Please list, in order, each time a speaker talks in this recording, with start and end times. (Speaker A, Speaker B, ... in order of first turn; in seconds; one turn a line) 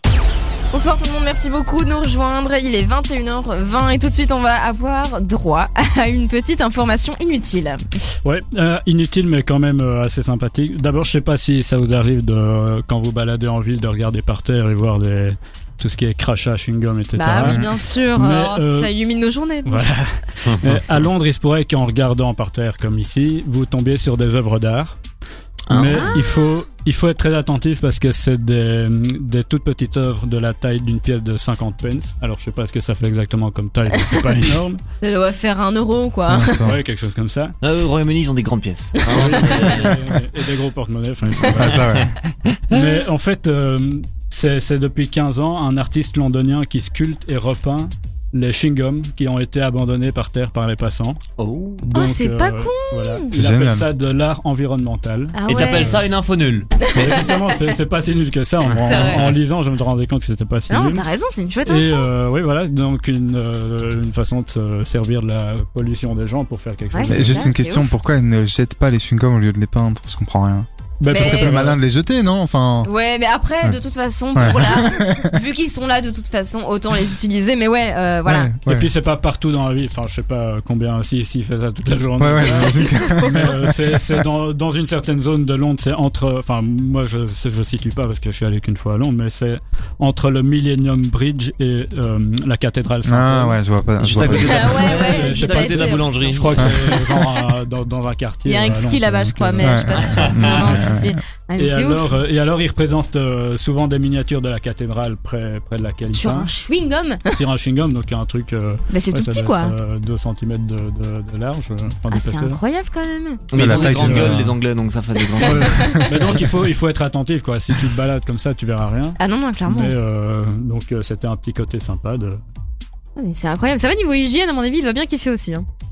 Speaker A: 0.7-7.8
Speaker B: 8.2-18.9
Speaker A: 17.1-19.9
Speaker B: 19.6-25.0
Speaker C: 20.4-20.7
Speaker C: 25.7-26.1
Speaker B: 25.7-34.8
Speaker A: 25.9-26.3
Speaker A: 35.0-36.7
Speaker D: 36.3-36.8
Speaker B: 36.6-37.5
Speaker C: 37.6-40.1
Speaker B: 39.1-41.9
Speaker A: 39.5-39.9
Speaker D: 41.4-42.1
Speaker B: 42.7-51.2
Speaker C: 51.4-51.8
Speaker B: 51.8-55.4
Speaker A: 51.9-53.3
Speaker D: 53.3-53.9
Speaker A: 55.3-56.0
Speaker C: 55.5-56.7
Speaker A: 56.8-57.6
Speaker B: 56.9-61.0
Speaker C: 58.7-59.4
Speaker A: 58.8-59.4
Speaker A: 60.7-62.1
Speaker B: 61.6-67.5
Speaker A: 66.9-67.9
Speaker D: 67.1-72.9
Speaker B: 71.0-71.8
Speaker A: 71.1-71.6
Speaker A: 72.8-78.5
Speaker D: 74.3-75.3
Speaker D: 78.2-78.9
Speaker B: 78.6-93.6
Speaker D: 82.2-84.2
Speaker A: 82.9-83.5
Speaker D: 93.0-94.9
Speaker C: 94.0-97.0
Speaker B: 94.2-101.0
Speaker A: 94.3-97.5
Speaker A: 98.5-102.2
Speaker D: 99.6-101.2
Speaker C: 100.1-100.5
Speaker B: 101.6-106.5
Speaker A: 106.1-107.4
Speaker B: 107.3-112.6
Speaker A: 108.9-109.8
Speaker A: 112.1-113.5
Speaker C: 113.5-116.0
Speaker D: 113.5-114.5
Speaker B: 113.6-114.4
Speaker B: 115.4-122.4
Speaker A: 115.4-116.1
Speaker A: 119.2-120.0
Speaker A: 123.2-125.7